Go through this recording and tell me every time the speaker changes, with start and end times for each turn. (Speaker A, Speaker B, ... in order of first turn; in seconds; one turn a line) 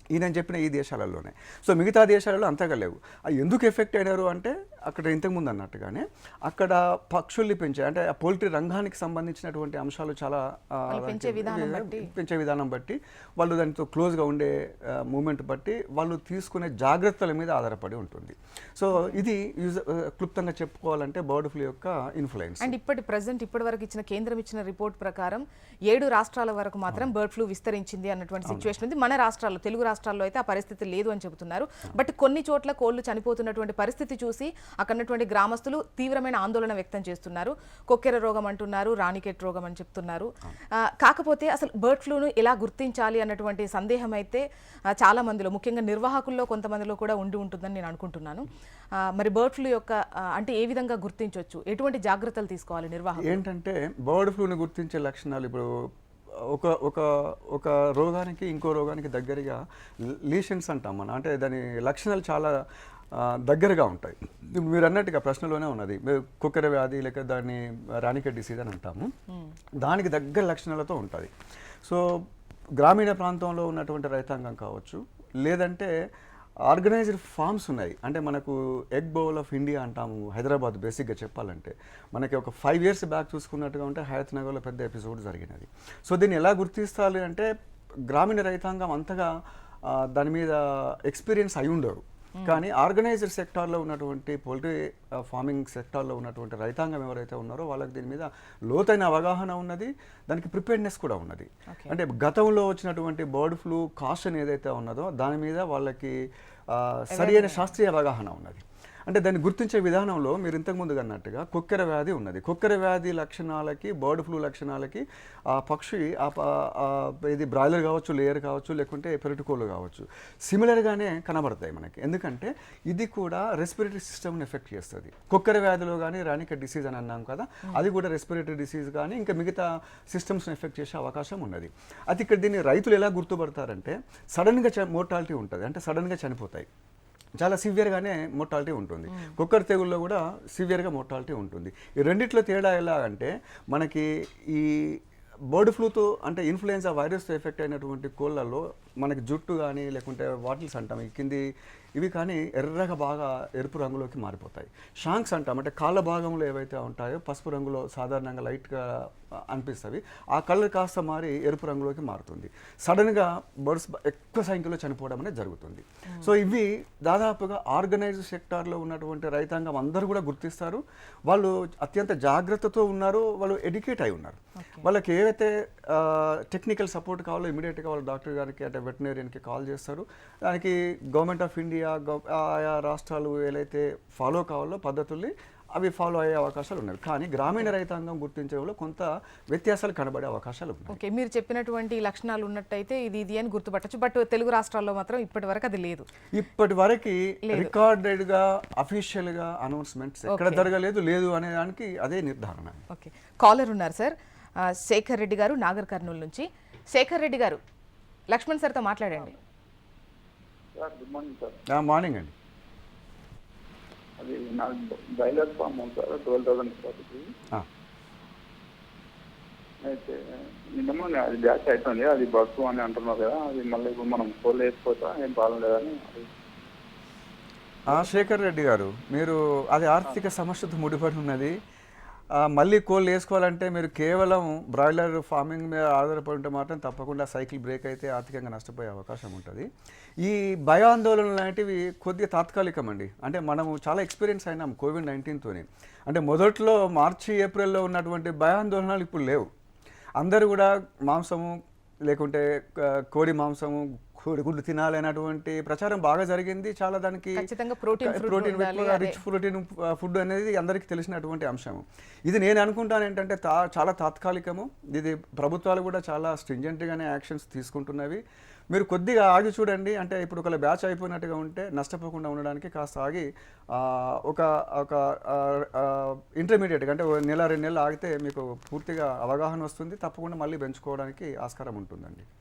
Speaker A: 0.1-22.7
Speaker B: 10.9-12.1
Speaker B: 22.6-44.4
Speaker A: 28.5-28.7
Speaker B: 45.0-48.5
Speaker B: 49.0-53.4
Speaker A: 53.2-55.7
Speaker A: 56.5-59.6
Speaker A: 60.1-62.6
Speaker A: 63.1-69.1
Speaker A: 69.8-71.3
Speaker A: 72.8-75.9
Speaker A: 76.7-87.5
Speaker A: 88.1-89.3
Speaker A: 89.9-106.2
Speaker A: 106.7-136.7
Speaker B: 107.1-107.6
Speaker A: 137.4-145.0
Speaker A: 145.5-151.4
Speaker A: 152.0-191.0
Speaker B: 190.9-196.1
Speaker A: 196.3-202.8
Speaker B: 197.5-197.7
Speaker B: 200.3-200.7
Speaker B: 202.9-207.6
Speaker B: 208.3-209.3
Speaker C: 210.8-211.6
Speaker A: 211.7-212.3
Speaker C: 214.2-217.2
Speaker C: 219.8-220.2
Speaker C: 220.7-226.3
Speaker A: 227.9-231.5
Speaker A: 232.4-239.7
Speaker A: 240.2-249.5
Speaker A: 250.2-257.5
Speaker B: 257.4-259.2
Speaker A: 258.0-282.3